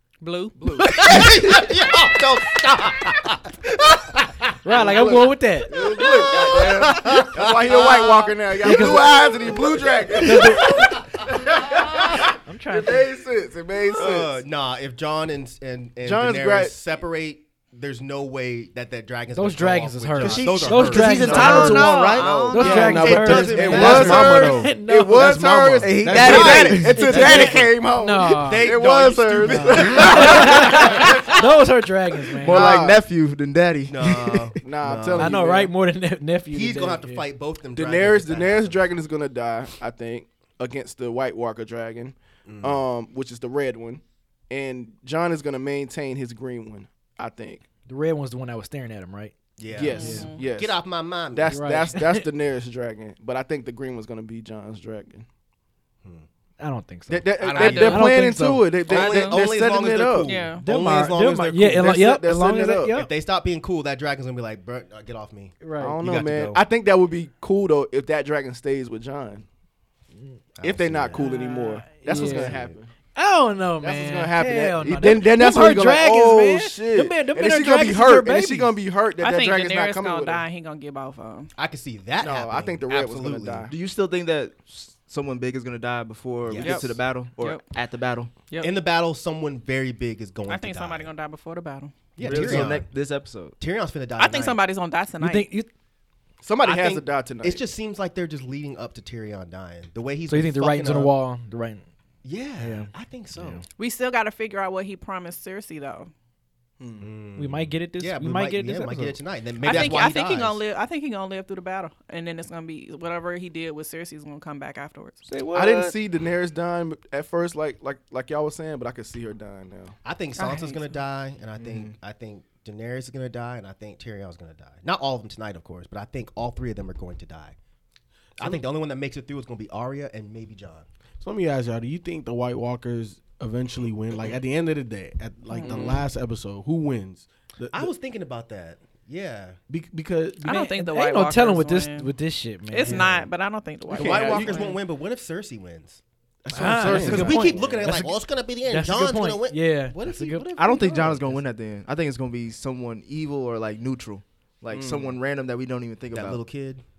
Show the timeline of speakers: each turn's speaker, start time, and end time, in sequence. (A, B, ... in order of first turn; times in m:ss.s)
0:00.2-0:01.3 A
0:00.6-0:01.1 B
0:00.8-0:04.3 C
0:04.6-0:05.8 D
0:04.7-0:10.8 B
0:05.7-0:08.9 C
0:08.6-0:09.3 D
0:09.4-0:11.2 C
0:10.2-0:11.0 D
0:11.5-0:14.4 B
0:12.3-0:13.1 D
0:13.9-0:24.7 C
0:16.0-0:16.8 B
0:19.3-0:22.0 D
0:20.2-0:22.6 E
0:21.2-0:23.0 A
0:22.2-0:23.0 B
0:22.5-0:25.5 D
0:22.6-0:26.9 F
0:23.6-0:31.4 B
0:25.8-0:27.3 E
0:26.1-0:27.8 C
0:26.8-0:28.7 D
0:28.4-0:31.4 C
0:29.4-0:32.8 D
0:32.4-0:33.0 B
0:32.4-0:34.6 E
0:33.9-0:35.5 C
0:34.6-0:35.8 B
0:35.2-0:37.3 D
0:36.5-0:38.9 C
0:37.8-0:47.6 B
0:42.5-0:42.8 C
0:47.8-0:49.4 D
0:49.6-0:51.5 C
0:49.8-0:50.8 B
0:49.9-0:50.3 D
0:50.0-0:50.4 A
0:51.3-0:55.3 B
0:51.5-0:52.3 D
0:56.6-0:58.8 D
0:57.1-1:00.4 B
0:57.4-0:58.1 C
0:57.5-0:58.0 A
0:58.8-1:01.9 C
0:58.9-0:59.4 A
1:00.2-1:00.6 A
1:00.6-1:03.1 D
1:01.8-1:03.0 B
1:02.9-1:06.6 C
1:05.6-1:05.9 D
1:05.8-1:09.4 B
1:10.1-1:10.4 D
1:10.6-1:11.3 C
1:10.6-1:12.9 B
1:11.2-1:12.6 D
1:12.1-1:12.7 C
1:13.1-1:18.8 D
1:13.8-1:20.4 B
1:19.2-1:21.5 A
1:21.6-1:23.7 C
1:22.2-1:23.7 B
1:23.7-1:28.3 E
1:26.5-1:27.0 C
1:26.6-1:27.6 A
1:28.5-1:28.8 A
1:28.6-1:31.1 C
1:30.5-1:31.9 A
1:32.2-1:32.9 C
1:32.2-1:33.6 E
1:33.6-1:34.6 C
1:34.2-1:35.5 A
1:35.2-1:35.7 D
1:36.4-1:37.6 B
1:36.6-1:41.2 C
1:40.3-1:41.8 D
1:42.2-1:43.6 C
1:42.6-1:43.6 D
1:43.8-1:46.1 A
1:46.8-1:47.1 B
1:47.0-1:50.6 C
1:47.4-1:49.2 D
1:49.6-1:55.2 A
1:55.3-1:56.0 D
1:55.5-2:00.0 B
2:00.0-2:07.6 C
2:00.4-2:01.0 A
2:01.6-2:01.9 E
2:08.4-2:10.9 C
2:11.2-2:17.9 F
2:15.5-2:16.0 A
2:17.7-2:19.6 C
2:19.7-2:20.6 F
2:20.4-2:22.1 A
2:20.4-2:23.3 D
2:22.7-2:24.8 A
2:23.9-2:24.7 B
2:23.9-2:26.0 C
2:26.4-2:27.6 F
2:26.5-2:30.9 D
2:26.7-2:27.9 B
2:26.9-2:31.3 C
2:30.5-2:36.4 E
2:34.7-2:35.2 B
2:36.1-2:36.8 C